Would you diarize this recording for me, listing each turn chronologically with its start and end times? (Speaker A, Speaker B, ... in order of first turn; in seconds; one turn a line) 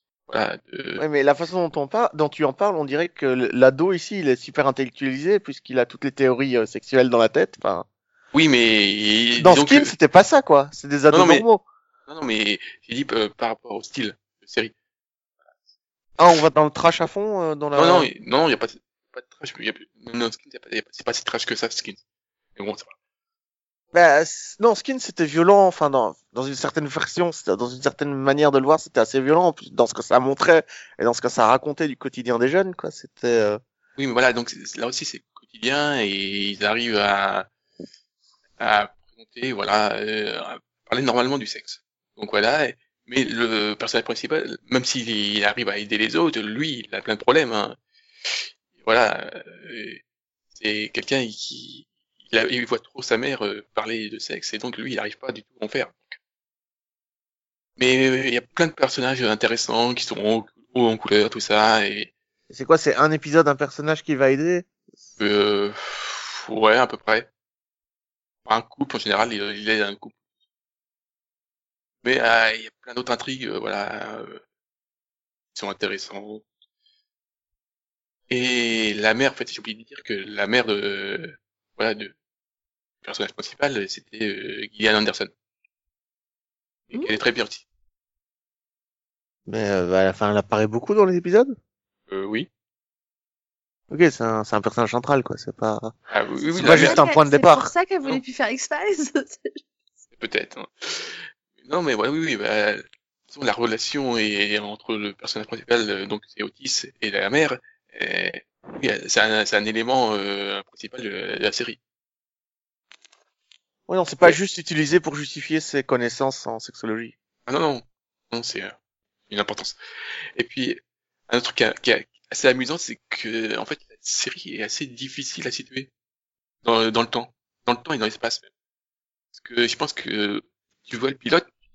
Speaker A: 0.3-1.0
Speaker B: 1.0-7.8
Speaker A: 8.3-9.9
Speaker B: 9.4-11.6
Speaker A: 11.1-11.4
Speaker A: 12.1-14.7
Speaker B: 16.2-18.1
Speaker A: 17.7-22.0
Speaker A: 22.6-22.9
Speaker B: 23.9-33.6
Speaker A: 34.0-37.5
Speaker A: 38.6-47.8
Speaker A: 48.3-50.0
Speaker A: 50.5-56.2
Speaker A: 57.8-62.1
Speaker B: 62.5-64.7
Speaker A: 65.2-67.3
Speaker A: 68.5-70.2
Speaker A: 72.0-74.4
Speaker A: 75.5-76.4
Speaker A: 78.3-82.1
Speaker A: 83.0-85.3
Speaker A: 86.9-87.6
Speaker B: 89.5-91.5
Speaker A: 92.1-92.5
Speaker B: 93.9-95.9
Speaker A: 96.1-97.0
Speaker B: 96.5-97.7
Speaker C: 96.7-99.6
Speaker A: 100.2-111.8
Speaker B: 113.9-117.1
Speaker A: 117.5-118.7
Speaker A: 119.3-119.8
Speaker A: 120.3-125.9
Speaker A: 126.6-128.5
Speaker A: 129.3-131.5